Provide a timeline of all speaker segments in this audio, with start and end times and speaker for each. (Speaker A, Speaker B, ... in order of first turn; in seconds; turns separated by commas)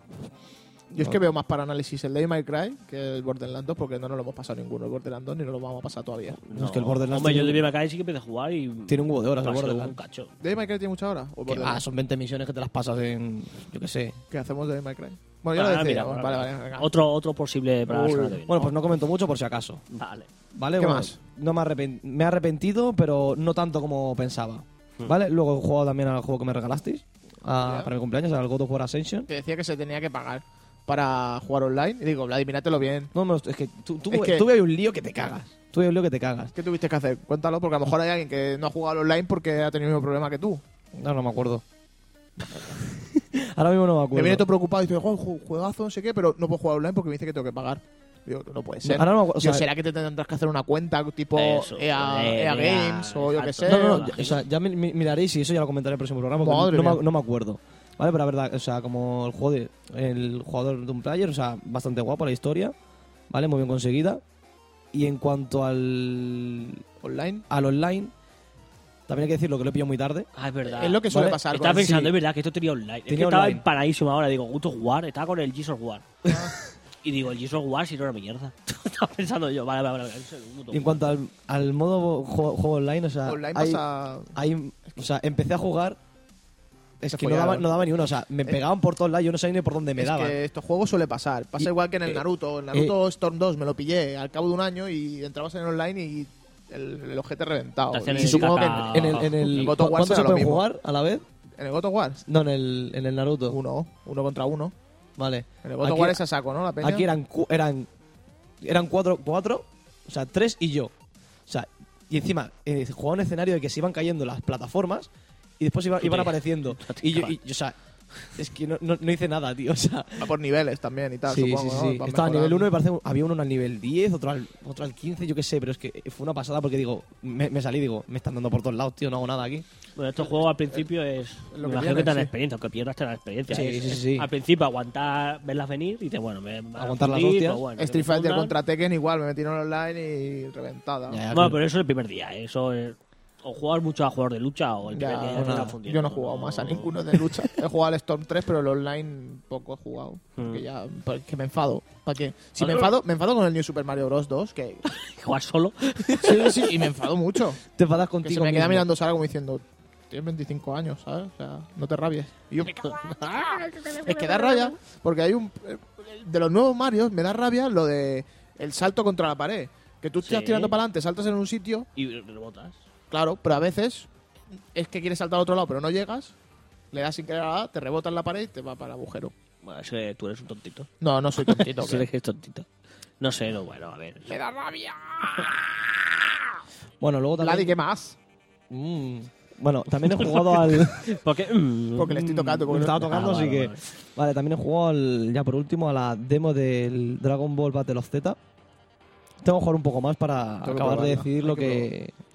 Speaker A: 0.9-6.4, Speaker B: 6.5-10.3, Speaker C: 6.5-7.7, Speaker C: 8.9-9.9, Speaker A: 10.4-11.8, Speaker C: 11.5-14.2, Speaker A: 14.3-16.9, Speaker B: 15.5-18.8, Speaker A: 17.9-18.4, Speaker C: 18.5-19.8, Speaker B: 19.9-20.3, Speaker C: 20.5-29.3, Speaker A: 20.8-21.2, Speaker A: 27.6-27.9, Speaker A: 29.3-33.1, Speaker C: 33.1-36.5, Speaker A: 34.1-34.4, Speaker A: 36.5-40.6, Speaker C: 41.0-41.6, Speaker C: 42.5-44.4, Speaker A: 44.1-54.2, Speaker C: 48.8-49.7, Speaker B: 51.3-54.4, Speaker C: 53.6-62.7, Speaker A: 56.4-57.0, Speaker C: 63.3-64.2, Speaker C: 64.9-66.8, Speaker A: 67.0-67.5, Speaker C: 67.5-68.1, Speaker C: 69.1-70.3, Speaker B: 70.3-76.1, Speaker A: 70.6-72.1, Speaker C: 71.1-72.1, Speaker C: 73.1-73.6, Speaker A: 76.2-76.5, Speaker B: 77.0-81.2, Speaker C: 80.7-86.0, Speaker A: 83.2-84.4, Speaker C: 87.0-90.3, Speaker A: 87.1-87.8, Speaker A: 90.0-100.7, Speaker C: 91.6-92.2, Speaker B: 97.9-99.7, Speaker C: 98.2-101.2, Speaker A: 101.6-102.2, Speaker C: 102.3-103.6, Speaker A: 103.5-104.7, Speaker C: 105.2-106.2, Speaker A: 105.6-107.1, Speaker C: 106.8-107.9, Speaker C: 108.6-110.9, Speaker C: 111.5-120.3, Speaker B: 116.0-117.3, Speaker A: 120.2-122.7, Speaker C: 121.3-129.6, Speaker B: 129.9-138.6, Speaker A: 131.5-132.3, Speaker C: 133.5-134.3, Speaker C: 136.8-137.6, Speaker A: 137.8-141.2, Speaker C: 141.1-141.6, Speaker B: 141.3-147.2, Speaker A: 144.9-154.8, Speaker C: 145.3-145.7, Speaker B: 150.3-150.6, Speaker B: 152.6-152.9, Speaker B: 154.8-156.7, Speaker A: 156.2-157.6, Speaker C: 157.7-158.9, Speaker A: 158.2-163.1, Speaker B: 162.7-164.7, Speaker A: 164.0-171.9, Speaker B: 170.2-170.8, Speaker B: 171.9-172.8, Speaker A: 173.1-174.1, Speaker A: 174.7-176.3, Speaker A: 176.9-179.3, Speaker B: 179.6-182.7, Speaker A: 181.0-182.1, Speaker B: 183.2-184.4, Speaker A: 184.2-186.0, Speaker C: 187.0-187.7, Speaker A: 187.4-188.2, Speaker C: 188.7-191.2, Speaker B: 190.1-193.8, Speaker A: 191.9-193.1, Speaker C: 192.6-198.4, Speaker C: 199.4-202.1, Speaker A: 200.6-201.9